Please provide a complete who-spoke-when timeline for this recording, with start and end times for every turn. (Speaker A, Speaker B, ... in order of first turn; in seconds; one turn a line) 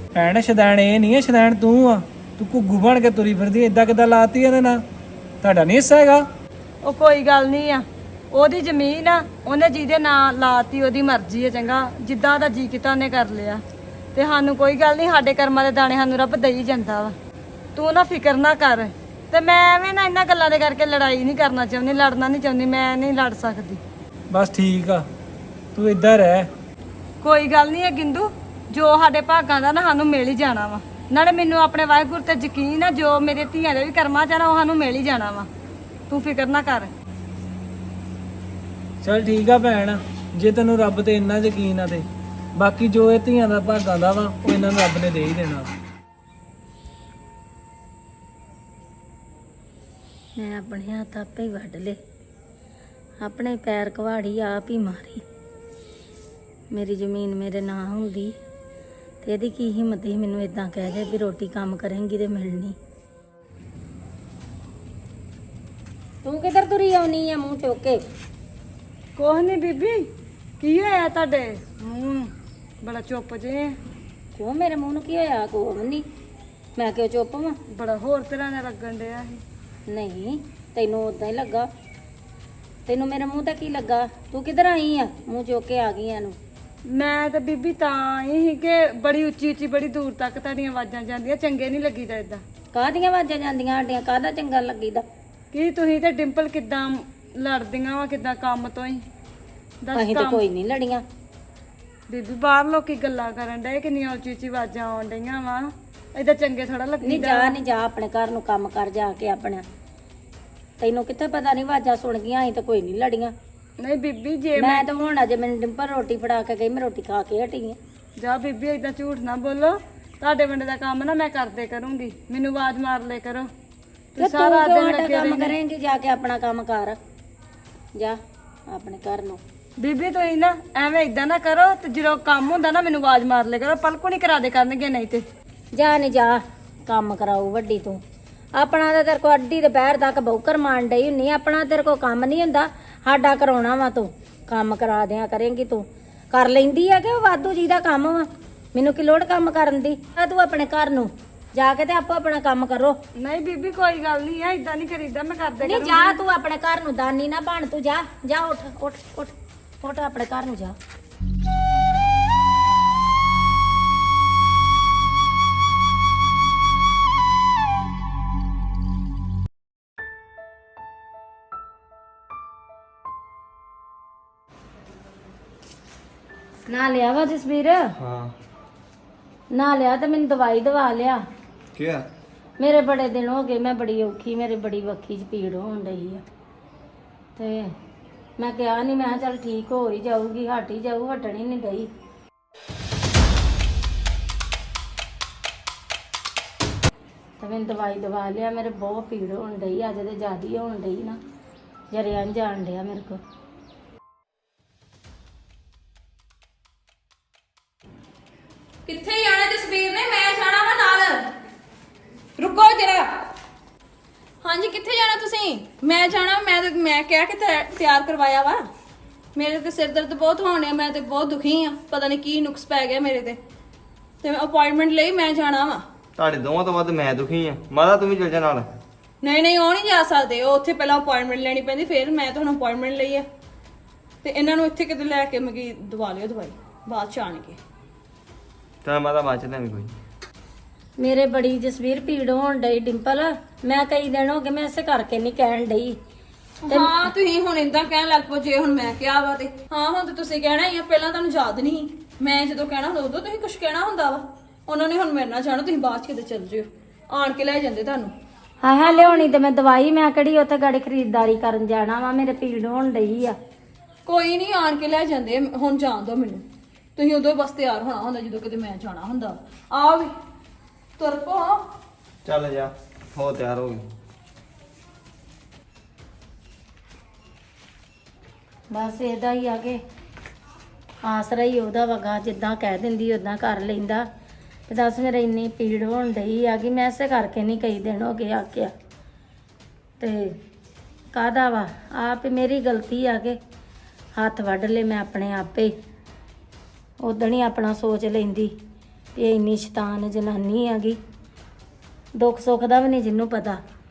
Speaker A: 0.1-4.8
Speaker A: 5.4-6.3
Speaker B: 6.8-13.6
Speaker B: 14.1-17.1
Speaker B: 17.8-23.8
Speaker A: 24.3-25.1
Speaker A: 25.8-26.5
Speaker B: 27.2-35.5
Speaker B: 36.1-36.9
Speaker A: 39.0-42.0
Speaker A: 42.6-45.7
Speaker C: 50.4-52.0
Speaker C: 53.2-55.2
Speaker C: 56.7-58.4
Speaker C: 59.2-62.8
Speaker C: 66.2-68.0
Speaker B: 69.2-70.1
Speaker B: 70.6-73.8
Speaker C: 74.3-76.0
Speaker C: 76.8-77.6
Speaker B: 77.7-79.4
Speaker C: 79.9-81.7
Speaker C: 82.9-86.4
Speaker B: 86.9-92.4
Speaker C: 92.7-95.0
Speaker B: 95.5-99.0
Speaker B: 99.8-100.4
Speaker C: 99.9-101.0
Speaker B: 102.1-107.6
Speaker C: 107.0-109.6
Speaker C: 110.8-113.3
Speaker B: 113.8-114.9
Speaker C: 114.6-117.8
Speaker B: 118.2-123.5
Speaker B: 124.2-125.6
Speaker C: 124.2-127.0
Speaker C: 128.7-129.4
Speaker B: 129.8-135.2
Speaker C: 135.8-138.0
Speaker C: 138.6-153.0
Speaker B: 153.2-156.2
Speaker C: 155.6-160.8
Speaker C: 176.7-177.9
Speaker D: 178.0-178.3
Speaker C: 179.5-181.2
Speaker D: 181.7-182.1
Speaker C: 182.6-186.2
Speaker C: 187.4-187.7
Speaker C: 188.4-191.9
Speaker C: 197.4-201.2
Speaker C: 201.9-203.2
Speaker E: 208.9-211.3
Speaker E: 212.4-213.1
Speaker E: 214.4-218.7
Speaker E: 219.4-223.4
Speaker E: 224.2-225.8
Speaker D: 226.2-228.7
Speaker E: 229.2-233.2
Speaker E: 234.2-237.6
Speaker D: 238.8-239.9
Speaker C: 241.0-246.0
Speaker E: 246.7-258.1
Speaker C: 246.7-247.1
Speaker C: 258.6-263.4
Speaker E: 264.1-266.4
Speaker E: 267.0-270.1
Speaker E: 271.0-271.6
Speaker D: 272.2-273.8
Speaker C: 278.7-279.8
Speaker C: 281.0-284.1
Speaker C: 284.7-288.7
Speaker C: 290.0-290.4
Speaker C: 291.1-293.4
Speaker C: 294.2-295.7
Speaker C: 297.0-298.5
Speaker C: 299.2-301.0
Speaker C: 302.2-303.6